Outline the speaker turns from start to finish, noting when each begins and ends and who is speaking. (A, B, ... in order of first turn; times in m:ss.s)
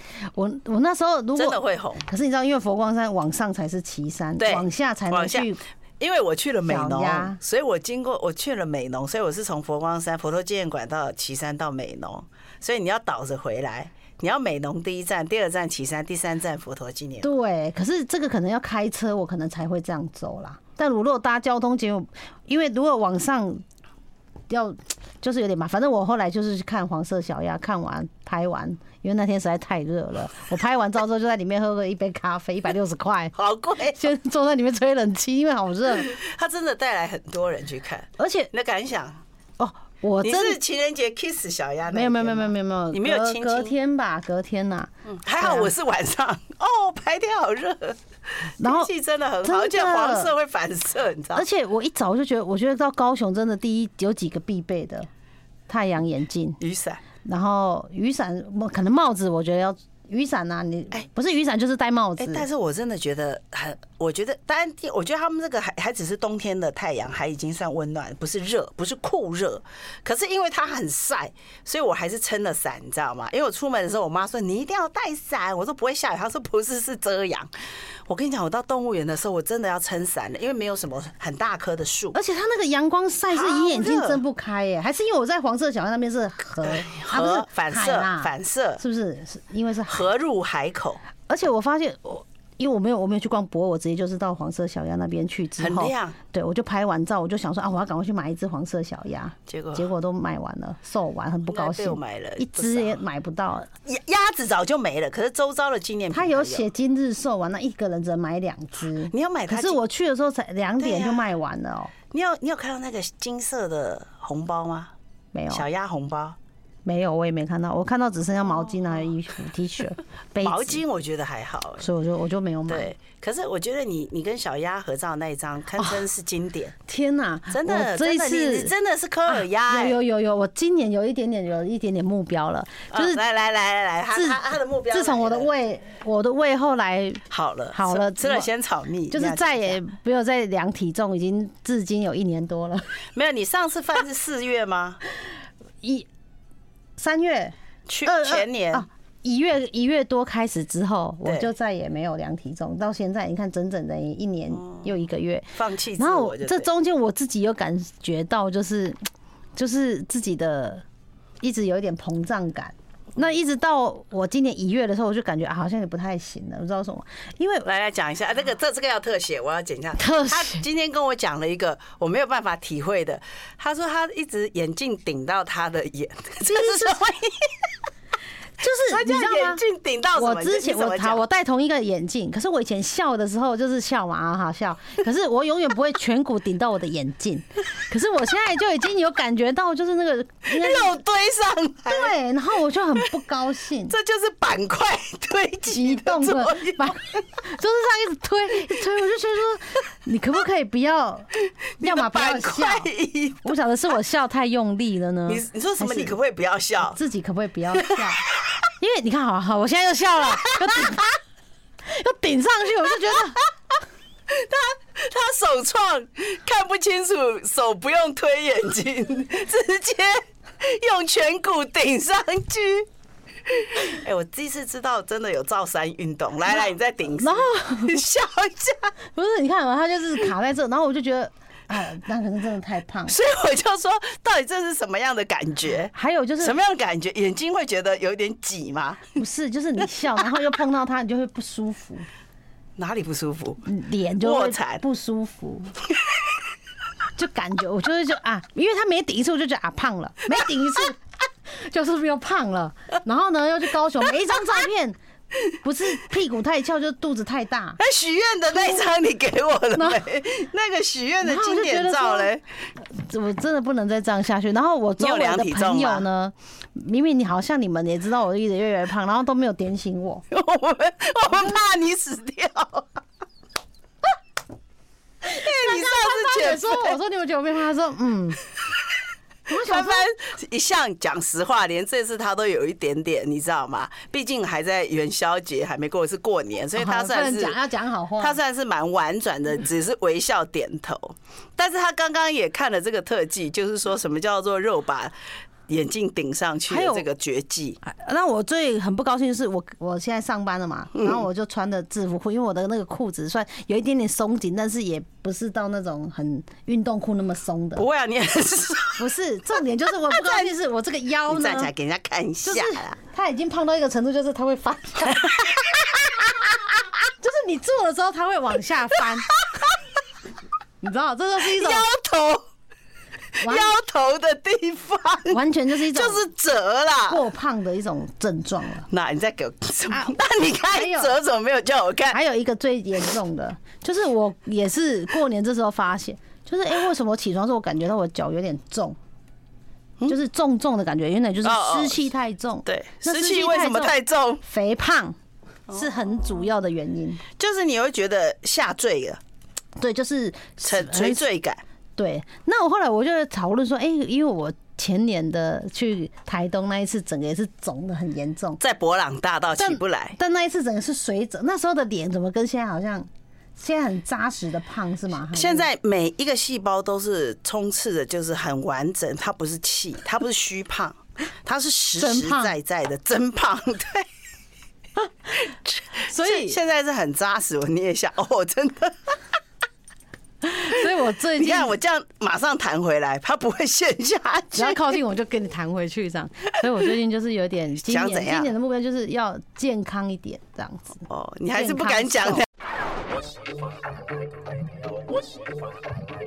0:00.3-0:05.6 A
0:01.4-0:02.0 B
0:04.4-0:17.3 B
0:06.7-0:07.4 A
0:17.2-0:23.6 A
0:24.5-0:33.3 A
0:33.3-0:34.1 B
0:33.9-0:36.1 A
0:36.0-0:39.2 B
0:38.2-0:38.5 A
0:39.6-0:40.6 A
0:40.2-0:43.7 B
0:41.9-0:45.7 A
0:45.1-0:48.0 B
0:48.6-0:51.5 B
0:48.6-0:48.9 A
0:49.4-0:50.3 A
0:51.3-0:55.1 A
0:55.7-0:56.6 A
0:56.6-0:57.0 B
0:57.2-1:02.4 A
1:02.2-1:17.5 B
1:18.1-1:22.2 B
1:22.1-1:30.1 A
1:23.3-1:24.2 B
1:26.6-1:28.8 B
1:29.9-1:31.0 B
1:31.3-1:43.7 A
1:35.6-1:36.2 B
1:39.5-1:39.9 B
1:41.5-1:43.0 B
1:43.8-1:46.7 B
1:46.1-1:51.9 A
1:49.1-1:49.8 B
1:50.8-1:51.3 B
1:52.1-1:54.9 B
1:55.3-1:55.6 A
1:55.5-1:56.4 B
1:56.8-2:00.8 A
2:00.4-2:01.9 B
2:01.8-2:02.9 A
2:02.7-2:06.7 B
2:06.9-2:08.7 A
2:07.5-2:10.0 B
2:09.3-2:13.2 A
2:12.9-2:15.5 B
2:14.1-2:18.5 A
2:17.3-2:19.8 B
2:19.1-2:22.9 A
2:23.1-2:25.0 B
2:25.8-2:26.1 A
2:27.0-2:27.5 A
2:27.9-2:28.8 B
2:28.0-2:39.0 A
2:31.2-2:31.5 B
2:34.5-2:34.9 B
2:35.5-2:36.7 B
2:39.6-2:40.8 A
2:41.4-2:47.6 A
2:47.6-2:57.7 B
2:50.0-2:50.6 A
2:56.4-2:57.0 A
2:58.6-2:59.6 A
2:58.8-3:01.2 B
3:00.2-3:11.0 A
3:10.5-3:12.2 B
3:11.9-3:14.0 A
3:13.9-3:17.0 B
3:15.7-3:21.3 A
3:21.8-3:23.5 B
3:21.8-3:22.9 A
3:23.4-3:26.1 A
3:25.3-3:27.0 B
3:26.9-3:28.2 A
3:27.8-3:28.5 B
3:28.8-3:31.2 A
3:30.4-3:31.0 B
3:31.8-3:33.4 A
3:34.3-3:42.9 B
3:43.5-3:48.9 B
3:47.2-3:48.0 A
3:49.1-3:53.1 A
3:53.1-3:59.2 B
3:55.9-3:56.6 A
3:59.2-4:02.0 A
4:02.8-4:03.6 B
4:03.6-4:05.7 A
4:04.2-4:04.8 B
4:07.2-4:11.0 A
4:11.5-4:15.0 A
4:15.5-4:17.8 A
4:17.8-4:22.4 B
4:19.8-4:20.0 A
4:21.2-4:22.3 A
4:22.9-4:30.2 A
4:25.0-4:26.1 B
4:30.3-4:32.9 B
4:35.2-4:37.0 B
4:35.2-4:38.4 A
4:39.5-4:40.1 A
4:39.5-4:47.6 B
4:46.8-4:48.4 A
4:48.2-4:55.1 B
4:55.7-4:57.8 B
4:56.7-4:57.0 A
4:57.8-5:07.8 A
5:07.8-5:09.1 B
5:09.0-5:11.7 A
5:10.1-5:10.5 B
5:11.3-5:13.0 B
5:12.4-5:16.4 A
5:15.2-5:15.6 B
5:17.2-5:19.3 A
5:19.5-5:19.8 B
5:20.8-5:21.8 A
5:21.4-5:22.4 B
5:23.4-5:27.2 B
5:23.4-5:23.7 A
5:25.3-5:26.2 A
5:27.1-5:28.9 A
5:28.9-5:32.2 B
5:29.9-5:31.1 A
5:32.1-5:39.0 A
5:40.1-5:45.2 A
5:41.4-5:42.0 B
5:42.6-5:44.4 B
5:45.7-5:47.2 A
5:47.4-5:49.2 B
5:49.8-5:51.2 A
5:50.6-5:51.6 B
5:52.0-5:58.6 A
5:58.6-6:00.2 B
5:59.6-6:05.7 A
6:05.3-6:14.1 B
6:12.0-6:12.5 A
6:15.5-6:19.2 B
6:16.1-6:16.6 A
6:20.4-6:21.7 A
6:21.4-6:24.9 B
6:24.5-6:32.4 A
6:27.8-6:28.5 B
6:31.1-6:32.4 B